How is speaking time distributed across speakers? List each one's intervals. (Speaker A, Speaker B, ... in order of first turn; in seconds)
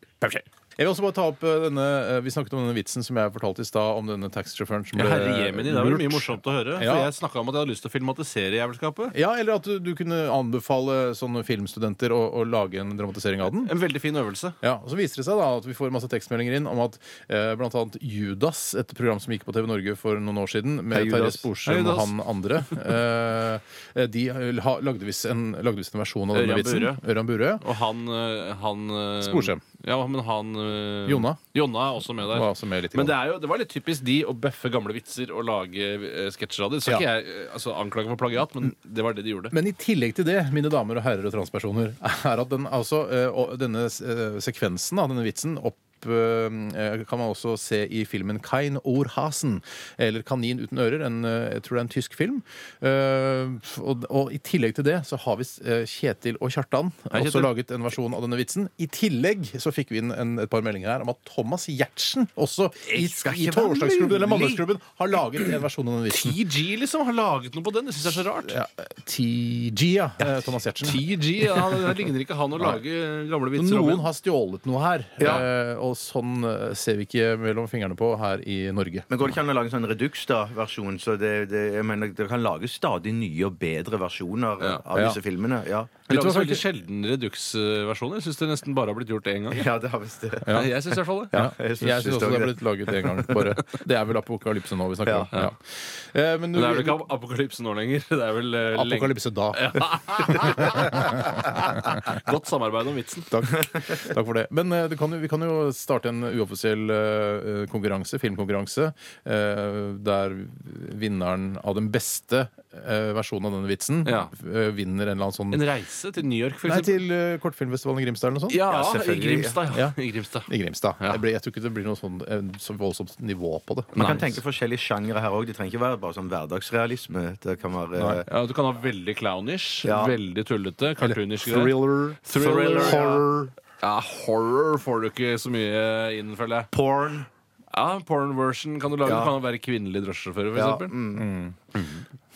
Speaker A: 0.2-7.1, 9.1-13.7, 14.6-27.6, 29.2-29.6, 31.1-31.4, 32.2-33.2, 39.5-66.4, 68.4-71.0, 73.5-79.1, 84.9-85.2, 86.1-86.6, 90.5-90.7, 91.3-97.0, 98.7-101.5, 103.3-115.6, 116.6-118.6, 119.7-120.0, 120.5-124.1, 128.0-128.2, 131.0-133.5, 141.2-141.6
Speaker B: 4.9-9.1, 13.5-14.6, 21.6-22.1, 26.3-27.0, 27.6-39.5, 57.1-57.5, 66.1-68.5, 70.8-74.1, 86.1-89.6, 90.5-91.3, 96.5-103.5, 114.0-114.3, 115.5-117.0, 118.5-121.2, 124.0-124.3, 128.3-133.2, 133.8-136.7, 137.7-140.9, 141.7-142.0
Speaker C: 20.9-21.5, 62.9-64.6, 75.2-75.5, 79.1-86.0, 89.5-90.7, 91.3-93.5, 95.0-95.3, 118.7-119.6, 124.0-128.3, 129.8-130.2, 132.8-133.2, 136.7-137.3, 139.0-139.3, 140.5-141.3